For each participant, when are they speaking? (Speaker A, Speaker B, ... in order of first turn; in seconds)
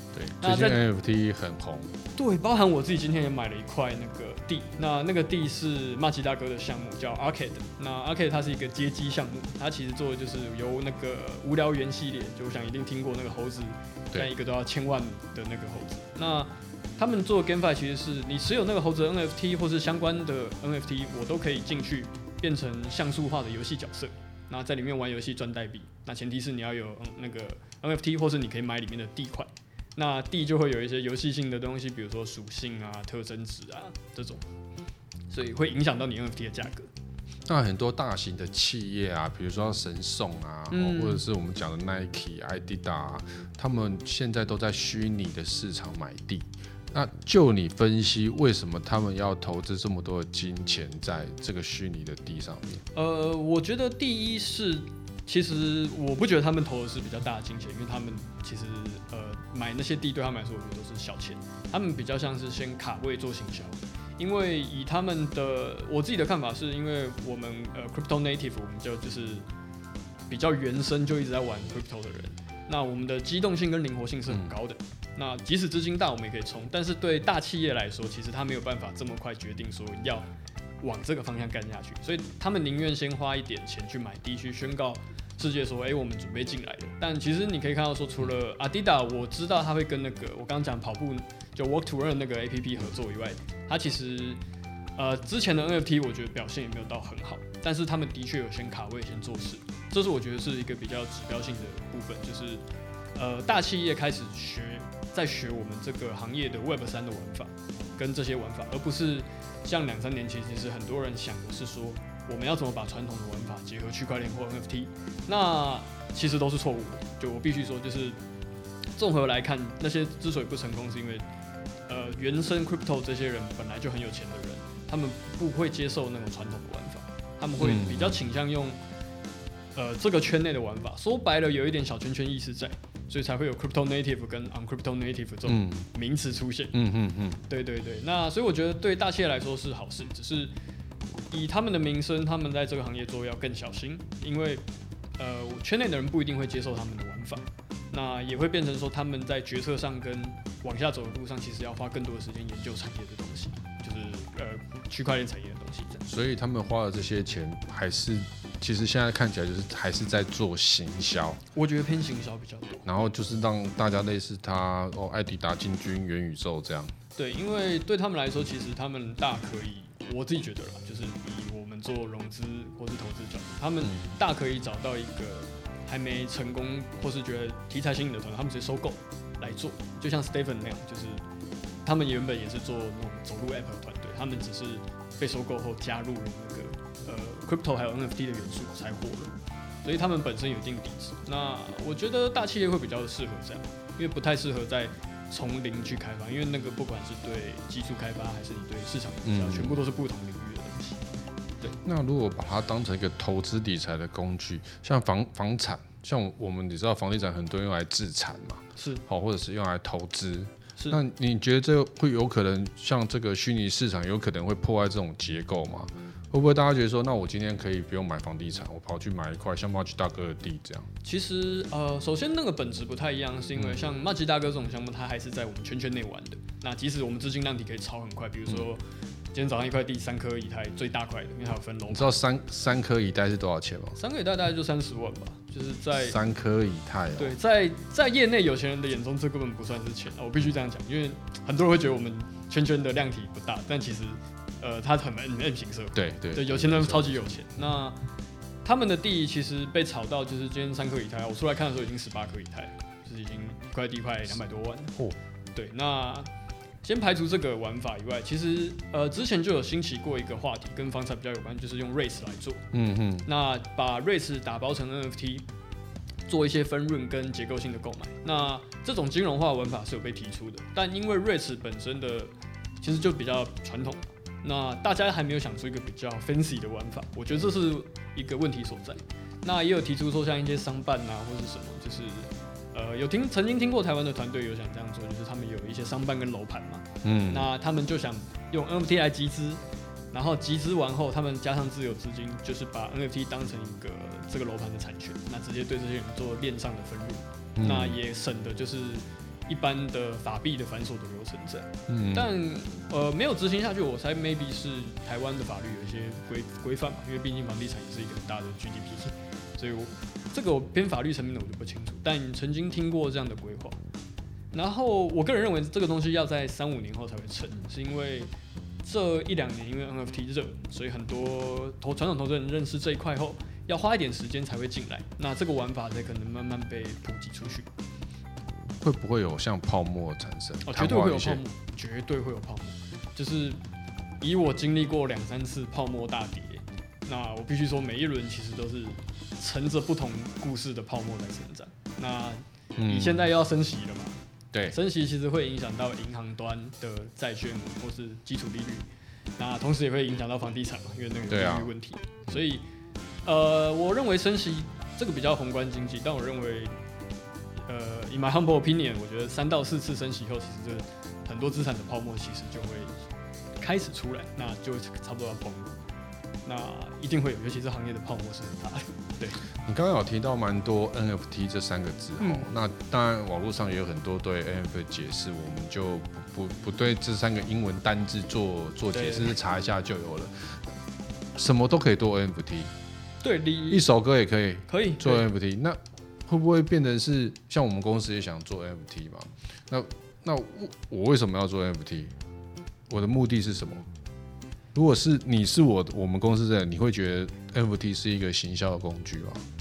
Speaker A: 0.1-1.9, 37.5-52.8, 74.3-74.5, 127.6-128.2, 135.5-135.9, 136.7-137.4, 156.1-161.4, 162.9-166.9, 173.8-174.1, 199.2-199.8, 201.8-220.9, 223.6-223.9, 231.9-234.0, 235.9-237.4, 245.9-247.4, 262.7-263.3, 287.0-287.5, 297.6-298.0, 301.9-302.3, 328.8-331.4, 342.8-343.3, 351.3-351.7, 369.6-380.6, 381.4-382.7, 383.7-392.1, 392.9-393.9, 394.8-399.5
Speaker B: 0.4-0.8, 2.2-34.5, 35.3-36.9, 40.7-41.2, 52.9-69.5, 70.3-80.3, 80.8-94.4, 95.0-102.6, 103.2-118.2, 119.0-121.2, 121.9-128.8, 129.8-136.8, 137.5-140.5, 141.3-144.6, 145.2-156.0, 161.5-162.9, 167.2-181.2, 181.8-189.3, 189.8-201.0, 208.8-209.0, 221.0-228.8, 229.3-232.2, 234.0-236.2, 237.2-248.0, 248.7-255.0, 255.6-256.3, 256.8-262.6, 263.2-265.5, 266.3-313.8, 314.5-318.3, 318.8-327.7, 330.6-333.6, 334.2-352.6, 353.2-356.8, 357.7-363.0, 363.6-365.8, 366.4-369.4, 372.2-372.5, 378.9-379.3, 383.2-383.9, 384.7-385.3